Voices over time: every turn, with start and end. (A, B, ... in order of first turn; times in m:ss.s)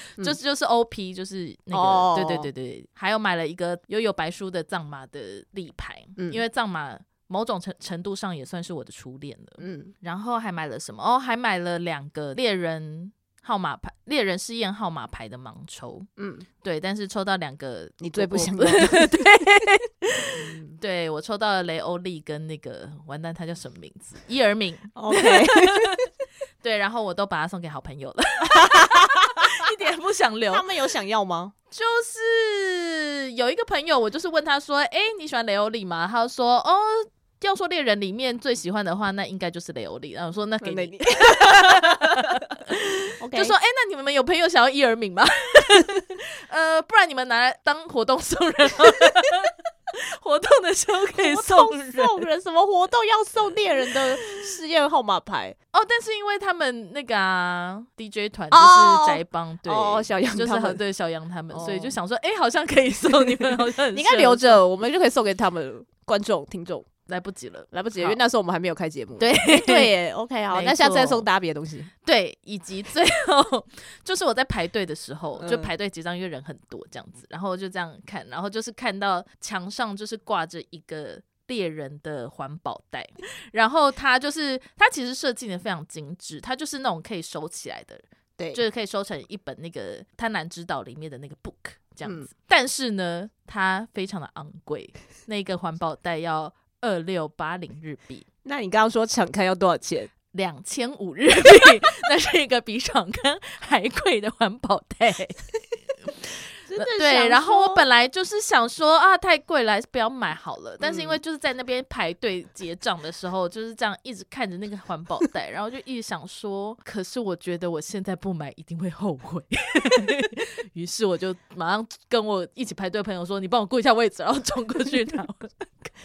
0:00.2-0:16.1 A
0:01.7-0:02.5 B
0:09.6-0:09.9 B
0:16.2-0:16.4 B
0:16.6-0:26.1 A
0:18.0-0:19.0 B
0:20.3-0:20.8 B
0:25.0-0:26.0 B
0:26.6-0:30.7 A
0:28.5-0:29.7 B
0:30.5-0:31.5 B
0:31.7-0:52.2 A
0:40.6-0:42.6 B
0:43.2-0:43.5 B
0:51.1-0:55.6 B
0:55.7-1:04.6 A
0:58.5-1:00.8 B
1:01.5-1:02.0 B
1:03.9-1:06.9 B
1:07.1-1:08.2 A
1:07.7-1:11.9 B
1:09.2-1:09.9 A
1:10.5-1:11.2 A
1:12.0-1:38.2 A
1:15.4-1:15.7 B
1:38.4-1:40.1 B
1:40.3-1:45.5 A
1:46.6-1:47.8 B
1:46.8-2:05.9 A
1:50.8-1:51.2 B